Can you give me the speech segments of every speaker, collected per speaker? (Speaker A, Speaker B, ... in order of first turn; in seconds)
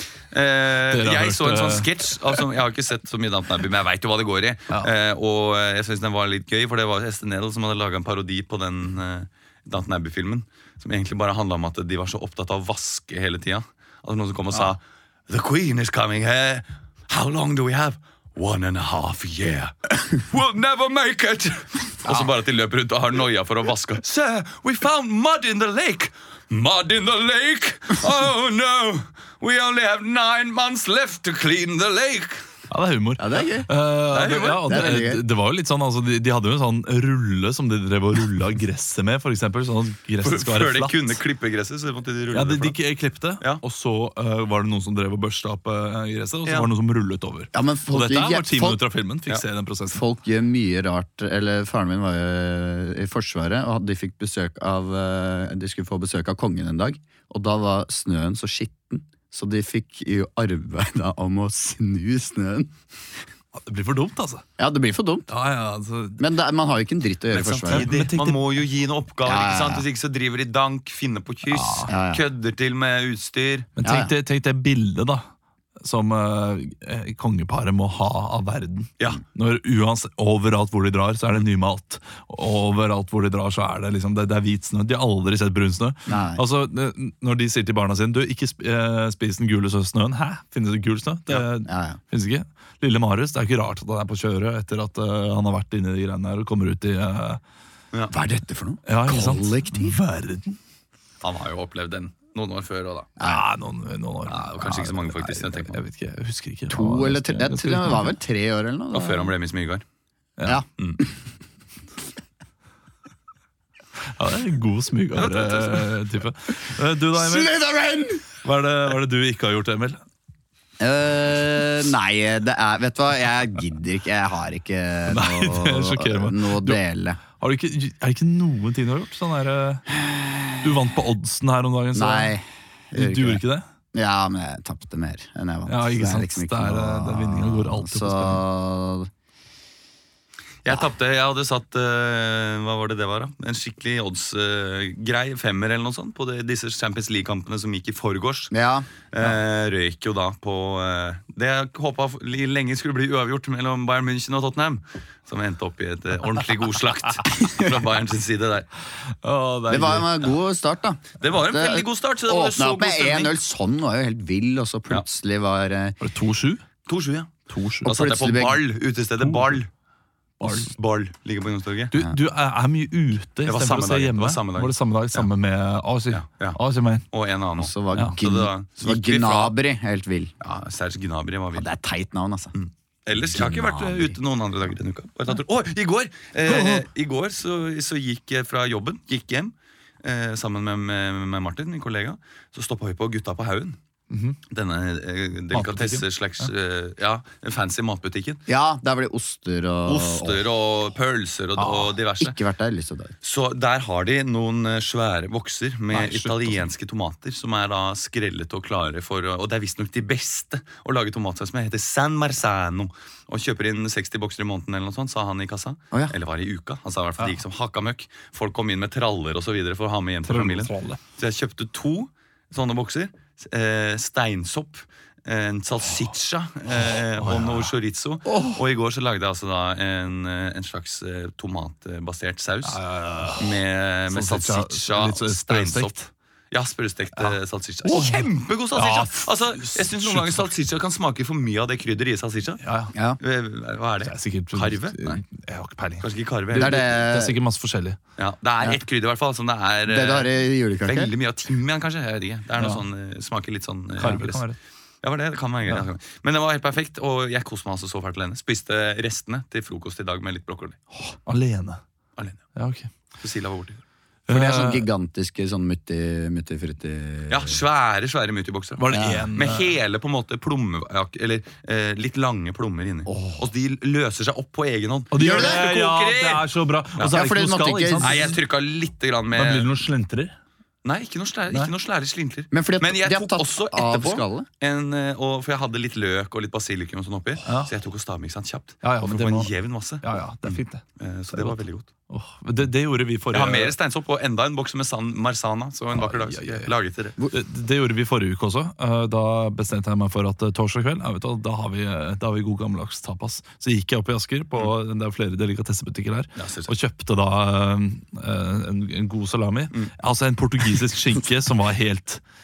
Speaker A: 0.3-32.4, 34.1-34.8, 40.2-42.8, 67.4-73.7, 101.2-103.1, 104.3-105.8, 108.9-109.8, 115.1-115.9, 140.6-148.5, 149.1-158.7, 161.2-163.3, 166.9-167.3, 167.8-169.7, 170.4-171.9, 173.4-175.3, 176.1-176.6, 177.1-179.5, 180.4-181.7, 182.5-193.8, 194.5-198.4, 199.8-202.4, 203.2-232.8, 233.4-236.0, 236.5-242.6, 243.2-245.2, 246.0-246.8, 248.2-250.3, 250.8-254.5, 255.0-260.8, 263.2-263.8, 267.3-276.4, 278.0-279.7, 280.8-291.9, 293.3-297.2, 306.4-306.7
Speaker B: 0.9-1.9, 32.7-41.1, 42.3-50.0, 63.5-64.4, 65.3-66.2, 67.4-68.4, 71.5-71.9, 73.8-75.2, 75.8-97.4, 98.9-100.6, 103.2-108.1, 114.2-117.5, 118.4-120.0, 125.1-126.8, 127.4-129.8, 130.6-132.3, 132.9-133.6, 135.7-138.4, 159.2-160.1, 166.0-166.6, 167.5-167.9, 169.2-169.6, 170.4-170.7, 171.9-177.1, 186.4-186.8, 194.1-194.4, 195.5-196.5, 201.6-201.9, 205.9-206.6, 220.3-221.0, 226.7-227.7, 232.6-233.6, 234.1-236.1, 237.2-240.5, 242.6-242.9, 244.0-248.0, 254.0-254.6, 261.0-261.8, 262.5-262.9, 264.3-264.9, 268.8-269.7, 275.1-278.4, 279.3-280.3, 287.4-287.7, 288.8-289.5, 290.0-293.7, 295.9-296.7, 297.3-312.2
Speaker C: 33.2-33.7, 34.6-35.2, 47.5-48.8, 49.9-62.7, 64.6-65.3, 66.2-67.9, 69.2-69.8, 71.8-72.2, 73.8-74.1, 86.1-86.4, 91.6-92.0, 98.1-100.0, 103.2-103.4, 106.7-109.3, 110.5-111.1, 117.1-118.2, 120.8-127.2, 129.9-130.7, 131.9-133.4, 133.9-139.1, 148.5-148.9, 157.3-157.7, 159.7-166.0, 167.8-168.6, 177.6-180.3, 181.5-182.5, 183.3-184.2, 198.5-200.4, 202.2-203.1, 246.5-247.3, 249.8-251.1, 264.3-267.6, 268.9-269.3, 273.1-273.4, 275.2-275.6, 277.1-278.2, 282.5-284.5